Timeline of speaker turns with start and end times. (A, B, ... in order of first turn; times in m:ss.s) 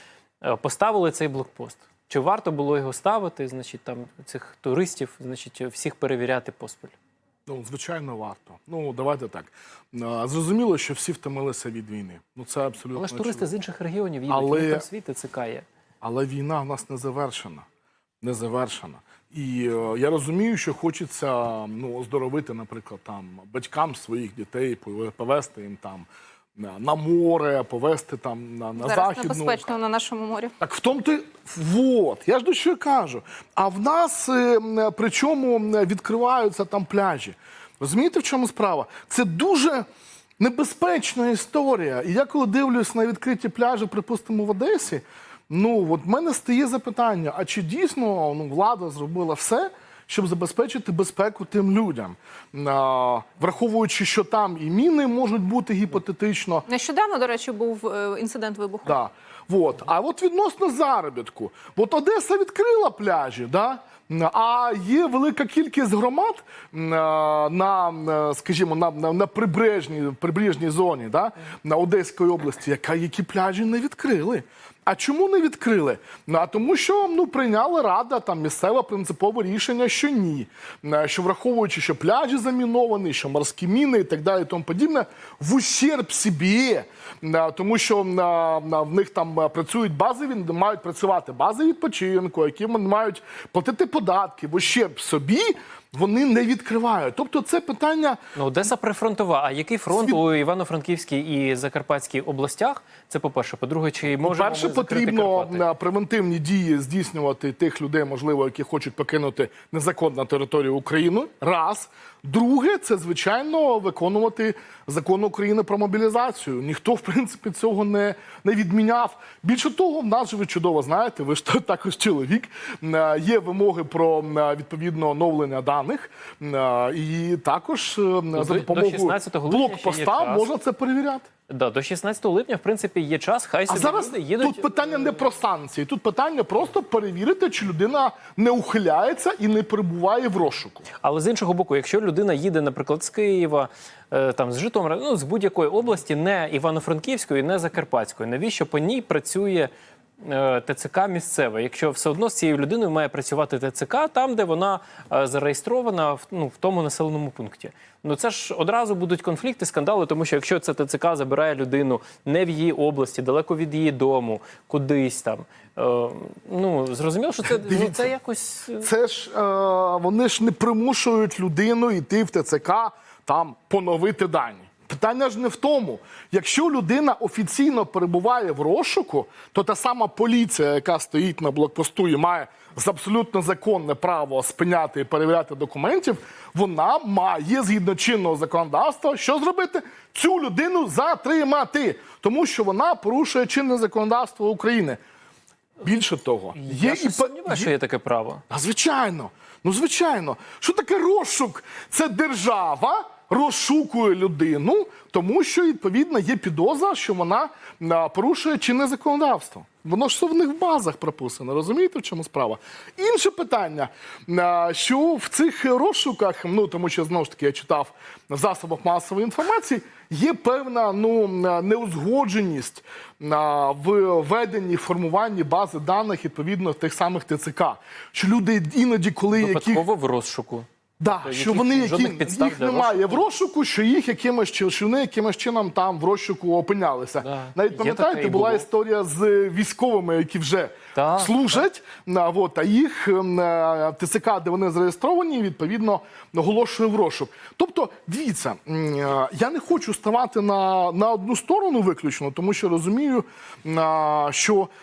0:00.4-0:07.0 A
0:07.5-0:13.4 B
0:13.0-0:15.6 A
0:14.3-0:14.9 B
0:16.0-0:17.6 B
0:18.2-0:29.6 B
0:28.8-0:30.5 C
0:30.6-0:39.9 B
0:40.4-0:56.6 B
0:56.7-0:59.0 C
0:58.9-1:38.2 B
1:38.4-1:45.6 A
1:39.9-1:40.2 B
1:44.2-2:11.3 B
2:08.3-2:10.5 A
2:11.5-2:15.3 A
2:13.7-2:20.9 B
2:21.0-2:48.9 A
2:47.4-2:48.1 B
2:48.8-3:15.0 B
3:15.8-3:17.7 B
3:16.6-3:18.4 A
3:18.5-3:49.9 B
3:49.4-3:50.7 A
3:51.0-4:14.7 B
3:51.2-3:53.2 A
3:57.2-3:58.6 A
4:00.9-4:01.6 A